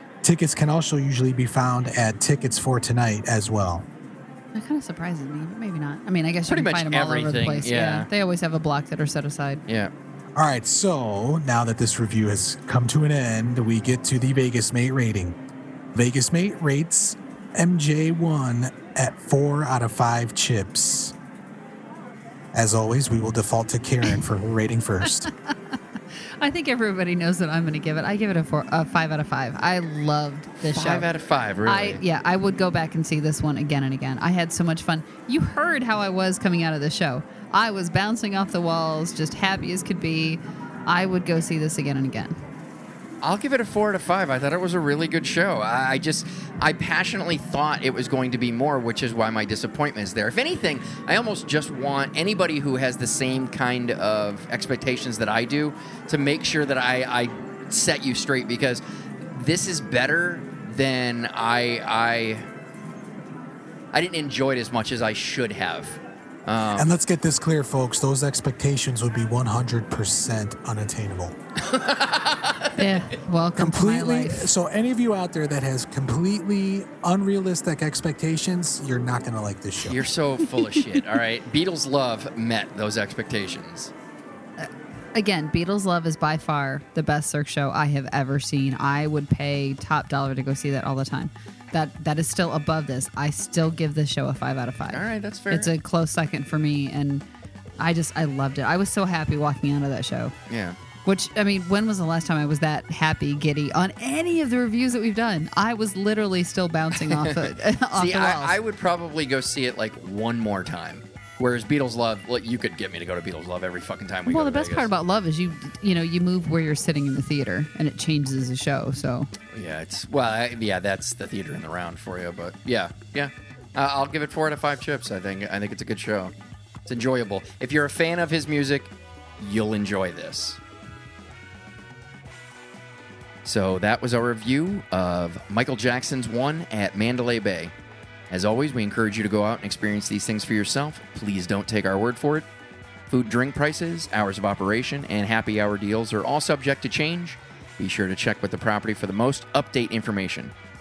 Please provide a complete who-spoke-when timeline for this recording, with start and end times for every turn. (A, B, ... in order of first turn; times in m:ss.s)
0:00.2-0:03.9 A
0:04.5-0:09.6 B
0:06.5-0:08.1 C
0:10.4-0:15.4 A
0:15.9-0:21.2 A
0:22.5-0:25.3 A
0:25.2-0:31.1 B
0:30.6-0:32.0 C
0:31.7-0:42.4 B
0:43.2-1:02.5 C
1:03.9-1:07.0 C
1:06.8-1:11.4 A
1:11.6-1:13.0 C
1:12.8-1:14.5 B
1:13.6-1:20.1 A
1:19.8-1:23.9 C
1:20.4-1:21.0 B
1:24.6-1:37.2 B
1:34.9-1:35.7 C
1:37.8-1:40.3 B
1:40.5-1:40.8 C
1:41.0-1:48.6 B
1:47.0-1:54.9 C
1:54.3-1:59.3 B
1:59.5-2:06.3 C
2:06.9-2:10.6 C
2:13.4-2:17.7 C
2:18.3-2:22.5 C
2:23.1-2:30.5 C